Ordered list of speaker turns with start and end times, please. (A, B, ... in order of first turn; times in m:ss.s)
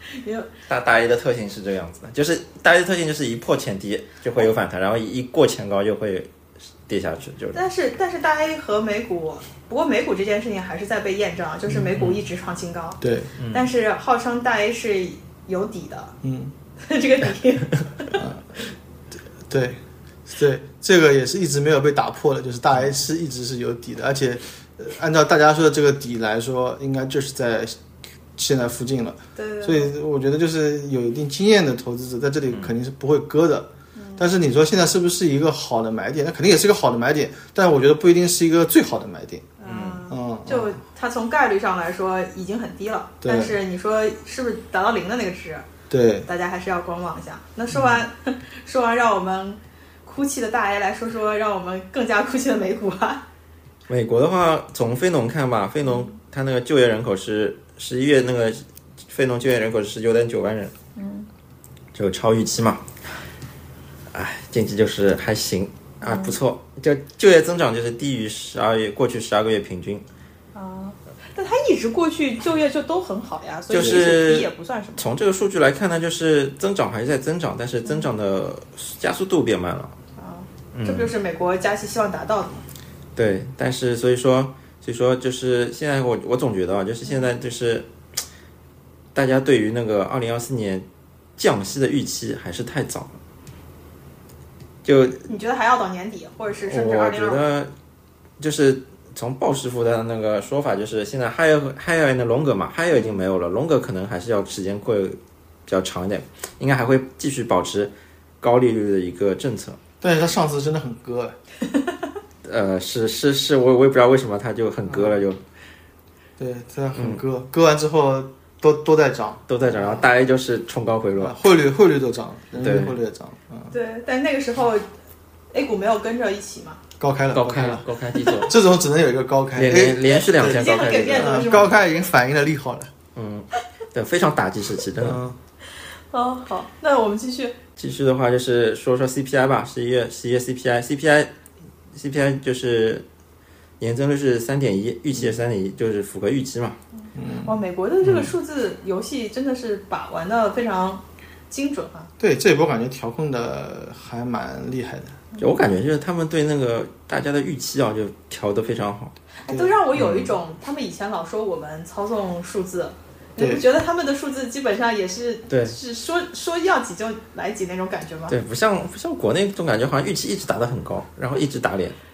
0:00.1-0:00.5 A
0:00.7-0:06.3 B
0:06.9-0:07.6 B
0:07.5-0:16.2 A
0:11.7-0:12.2 B
0:13.0-0:13.3 C
0:13.4-0:13.7 B
0:16.2-0:16.5 C
0:16.8-0:18.2 A
0:18.2-0:18.7 C
0:19.5-0:27.7 C
0:28.4-0:39.5 C
0:29.4-0:29.9 A
0:34.0-0:34.3 A
0:39.6-0:45.7 A
0:39.6-0:40.0 B
0:40.1-0:40.7 C
0:43.2-0:43.6 C
0:45.9-0:46.3 C
0:46.2-0:53.2 A
0:53.9-1:00.7 B
0:55.8-0:56.1 A
1:01.0-1:01.3 A
1:01.9-1:02.9 B
1:04.1-1:10.0 B
1:06.0-1:06.4 A
1:10.5-1:15.1 A
1:13.7-1:19.9 B
1:20.2-1:22.6 A
1:20.7-1:21.1 B
1:23.2-1:27.9 B
1:29.1-1:30.8 B
1:31.4-1:33.2 B
1:34.8-1:35.3 B
1:35.3-1:37.4 A
1:36.6-1:37.7 B
1:38.4-1:49.8 B
1:42.9-1:43.2 A
1:50.0-1:51.4 C
1:52.4-1:55.4 B
1:54.9-1:55.1 C
1:56.4-2:00.0 C
1:56.9-1:57.2 B
1:59.5-2:01.4 B
2:01.2-2:03.7 C
2:02.6-2:03.0 B
2:03.7-2:04.9 A
2:05.5-2:06.8 A
2:07.0-2:07.8 C
2:07.3-2:08.5 B
2:08.4-2:12.9 C
2:09.5-2:11.4 B
2:10.1-2:11.8 A
2:13.1-2:15.2 B
2:15.0-2:15.4 C
2:16.1-2:17.6 A
2:17.8-2:21.3 B
2:21.9-2:23.0 B
2:23.8-2:26.8 B
2:27.2-2:27.5 C
2:27.4-2:32.1 A
2:28.0-2:28.3 B
2:32.2-2:35.2 C
2:35.4-2:39.1 B
2:39.4-2:48.4 A
2:39.9-2:40.3 B
2:43.4-2:43.6 C
2:45.5-2:45.8 B
2:48.3-2:52.0 B